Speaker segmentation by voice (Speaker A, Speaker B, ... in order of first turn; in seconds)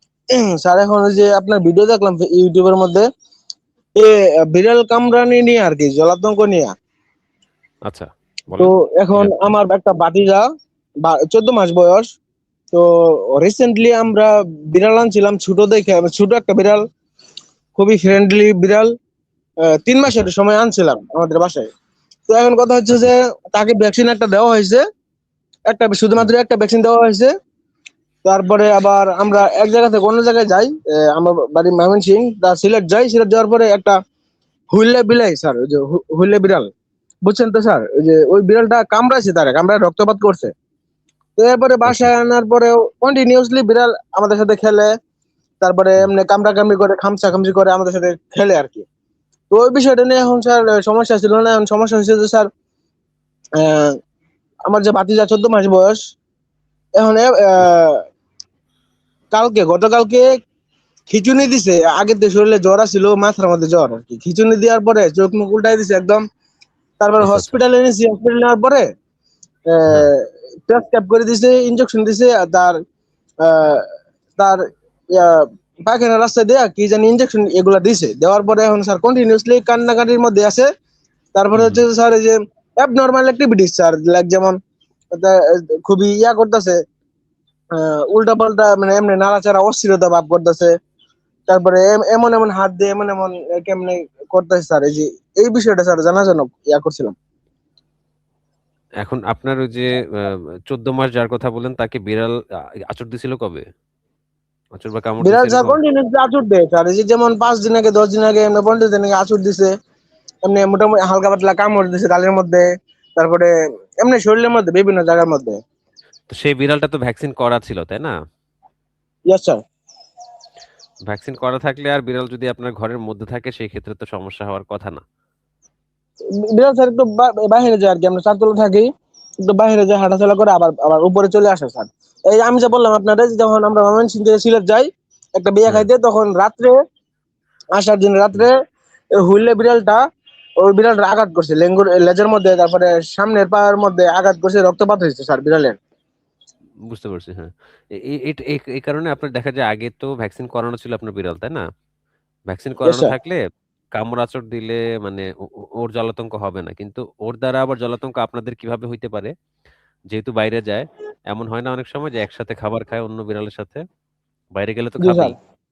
Speaker A: 0.3-3.0, 4.0-6.7, 8.6-10.4, 11.1-12.1, 12.7-16.8, 17.8-18.9, 19.7-21.7, 22.3-24.8, 25.7-27.3, 28.2-34.0, 34.7-36.7, 37.2-40.5, 41.4-44.9, 45.6-48.9, 49.5-52.5, 53.6-54.0, 54.7-56.0, 57.0-58.0, 59.3-60.3, 61.1-66.2, 67.0-68.9, 69.7-72.8, 73.4-73.8, 74.4-80.7, 81.3-84.6, 85.1-86.8, 87.8-90.7, 91.5-97.2, 105.2-109.7, 110.5-115.6, 119.3-119.6, 126.5-128.9, 129.4-136.8, 137.8-138.6, 139.2-140.0, 140.6-145.8, 152.8-153.1, 165.0-165.3
Speaker B: 7.9-9.4, 41.9-42.1, 67.2-67.5, 81.5-81.8, 99.0-102.3, 102.9-103.6, 104.8-105.8, 116.3-118.1, 121.1-125.0, 146.9-151.6, 152.5-153.4, 154.0-159.3, 160.1-163.8, 164.6-165.3